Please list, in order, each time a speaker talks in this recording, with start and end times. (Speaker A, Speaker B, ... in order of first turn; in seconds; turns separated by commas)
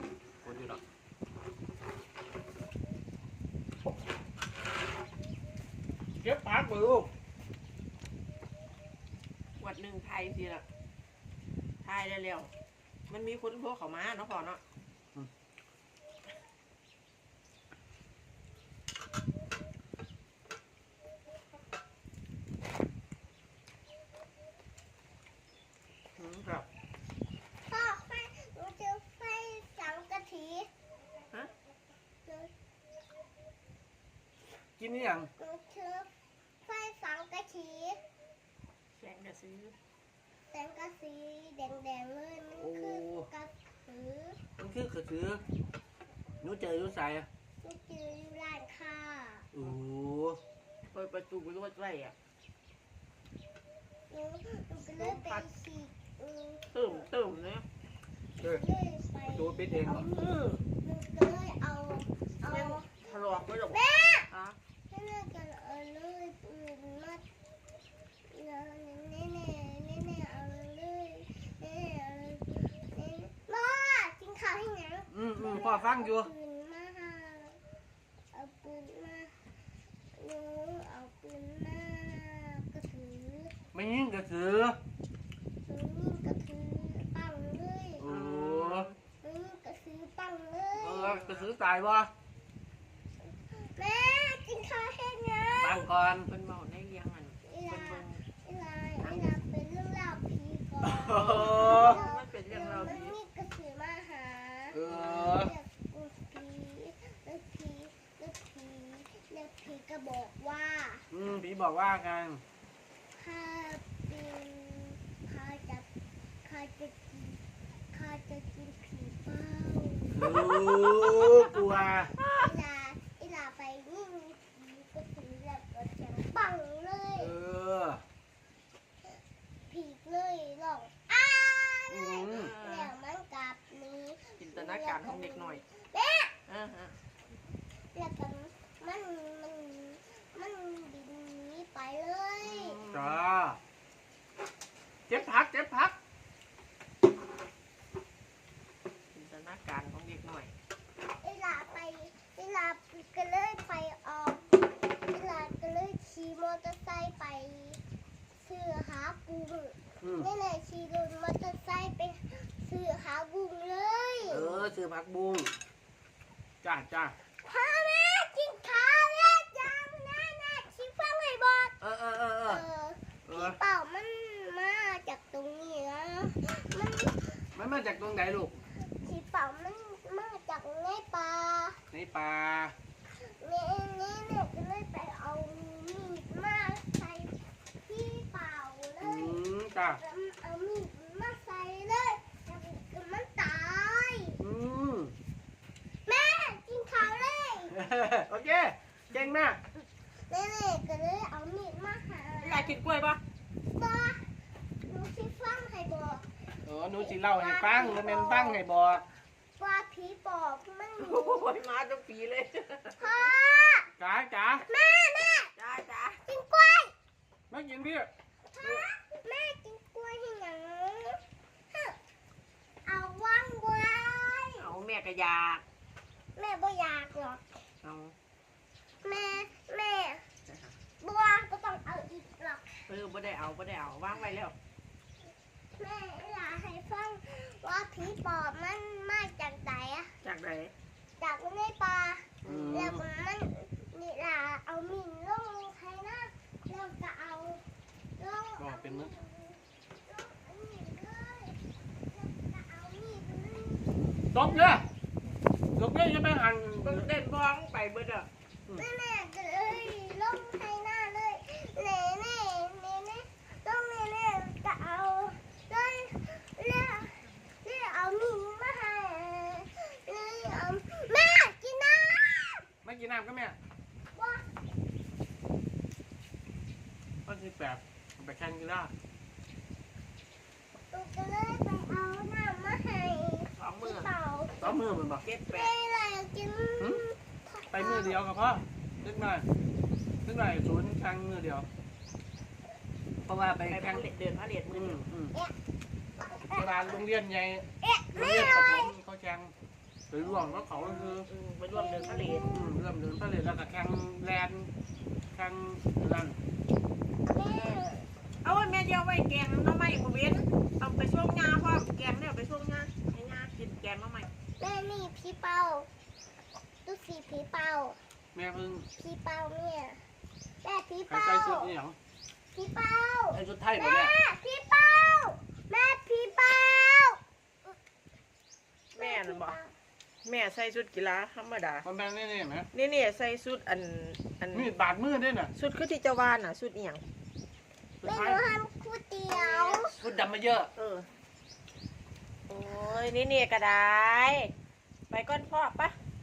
Speaker A: 0.4-0.8, Speaker A: 6.2-7.1, Speaker B: 9.6-10.7, Speaker B: 11.8-12.5, Speaker B: 13.1-14.6, Speaker A: 26.2-26.6, Speaker C: 27.7-30.7, Speaker C: 32.3-32.5, Speaker A: 34.8-35.3, Speaker C: 35.4-36.1, Speaker C: 36.7-38.0, Speaker B: 39.0-39.8, Speaker C: 40.5-44.4, Speaker A: 42.6-43.3, Speaker A: 44.6-45.4, Speaker A: 46.4-47.3, Speaker C: 47.6-49.5, Speaker A: 49.5-50.4, Speaker B: 50.9-52.1, Speaker C: 54.1-57.1, Speaker B: 55.0-55.4, Speaker B: 56.7-57.6, Speaker C: 58.4-63.1, Speaker A: 59.2-60.1, Speaker B: 62.5-64.6, Speaker C: 63.7-64.3, Speaker C: 64.9-67.2, Speaker C: 68.3-77.6, Speaker A: 75.1-76.3, Speaker C: 78.3-79.4, Speaker C: 80.2-83.5, Speaker A: 83.7-84.8, Speaker C: 85.7-88.1, Speaker A: 88.0-88.9, Speaker B: 88.1-89.0, Speaker C: 89.2-91.2, Speaker A: 90.8-92.1, Speaker B: 91.0-91.5, Speaker C: 93.5-95.9, Speaker A: 95.6-96.3, Speaker B: 96.2-98.2, Speaker C: 97.4-111.1, Speaker B: 99.0-99.4, Speaker A: 100.8-102.0, Speaker B: 101.2-103.2, Speaker A: 104.7-105.5, Speaker A: 111.1-112.4, Speaker C: 113.2-115.9, Speaker C: 116.5-117.4, Speaker C: 117.9-121.2, Speaker A: 120.1-122.2, Speaker B: 122.2-122.5, Speaker C: 122.3-127.4, Speaker A: 127.2-128.0, Speaker C: 129.7-136.3, Speaker A: 131.9-132.5, Speaker B: 132.3-132.9, Speaker B: 134.4-135.6, Speaker B: 136.5-136.9, Speaker C: 137.9-142.8, Speaker B: 142.4-143.2, Speaker A: 142.9-143.6, Speaker A: 145.1-146.0, Speaker B: 149.1-150.5, Speaker C: 151.2-157.8, Speaker C: 158.4-164.6, Speaker A: 160.0-160.3, Speaker A: 164.3-165.6, Speaker A: 166.6-167.2, Speaker C: 167.4-171.8, Speaker A: 171.8-172.7, Speaker C: 172.5-177.5, Speaker A: 173.3-173.6, Speaker A: 177.6-178.6, Speaker C: 178.8-181.8, Speaker A: 181.9-182.8, Speaker C: 183.1-189.4, Speaker A: 189.0-190.0, Speaker C: 190.0-194.4, Speaker A: 194.4-195.2, Speaker C: 196.1-197.8, Speaker A: 197.7-199.6, Speaker C: 200.2-202.8, Speaker B: 202.4-203.2, Speaker C: 203.7-204.3, Speaker C: 204.9-208.6, Speaker A: 206.7-209.1, Speaker C: 209.6-211.5, Speaker B: 211.0-213.3, Speaker C: 213.0-213.9, Speaker A: 214.0-214.7, Speaker C: 214.7-215.5, Speaker B: 215.6-216.2, Speaker C: 216.3-216.9, Speaker A: 217.5-218.1, Speaker C: 218.5-221.2, Speaker C: 221.7-222.0, Speaker C: 222.9-224.7, Speaker B: 224.6-225.6, Speaker C: 226.4-227.4, Speaker B: 227.8-228.2, Speaker C: 229.0-230.3, Speaker B: 230.5-230.8, Speaker C: 231.0-232.9, Speaker B: 232.9-234.6, Speaker C: 235.8-240.2, Speaker B: 240.2-240.7, Speaker C: 241.2-247.6, Speaker B: 242.4-242.9, Speaker A: 242.5-243.0, Speaker C: 248.2-254.9, Speaker A: 248.6-249.1, Speaker A: 254.3-254.9, Speaker A: 255.8-257.1, Speaker B: 256.8-258.3, Speaker C: 258.8-272.6, Speaker A: 272.8-273.6, Speaker C: 274.1-274.5, Speaker A: 277.3-278.9, Speaker C: 280.9-284.8, Speaker B: 283.6-284.1, Speaker A: 284.6-285.2, Speaker B: 285.2-285.7, Speaker C: 285.5-288.2, Speaker A: 287.7-289.5, Speaker A: 290.2-291.7, Speaker A: 293.2-294.1, Speaker B: 293.7-295.0, Speaker A: 294.7-295.4, Speaker C: 296.4-297.0, Speaker A: 296.5-299.5, Speaker C: 297.8-298.9, Speaker A: 300.1-301.3, Speaker C: 300.2-301.1, Speaker B: 301.0-302.5, Speaker C: 301.7-302.8, Speaker A: 302.5-304.7, Speaker A: 305.3-306.4, Speaker C: 307.3-308.1, Speaker B: 308.4-314.3, Speaker C: 314.6-315.9, Speaker C: 316.9-318.0, Speaker A: 318.4-318.9, Speaker C: 319.0-320.0, Speaker C: 320.6-321.8, Speaker A: 321.1-322.0, Speaker C: 322.5-327.2, Speaker A: 323.3-324.2, Speaker B: 328.9-329.6, Speaker C: 329.0-329.8, Speaker B: 330.2-331.9, Speaker A: 331.8-332.7, Speaker B: 332.7-334.7, Speaker A: 334.5-335.5, Speaker B: 335.5-337.0, Speaker A: 338.0-338.4, Speaker C: 338.0-339.9, Speaker B: 339.3-340.2, Speaker A: 340.0-340.7, Speaker B: 340.8-341.1, Speaker B: 342.5-344.5, Speaker B: 345.1-345.9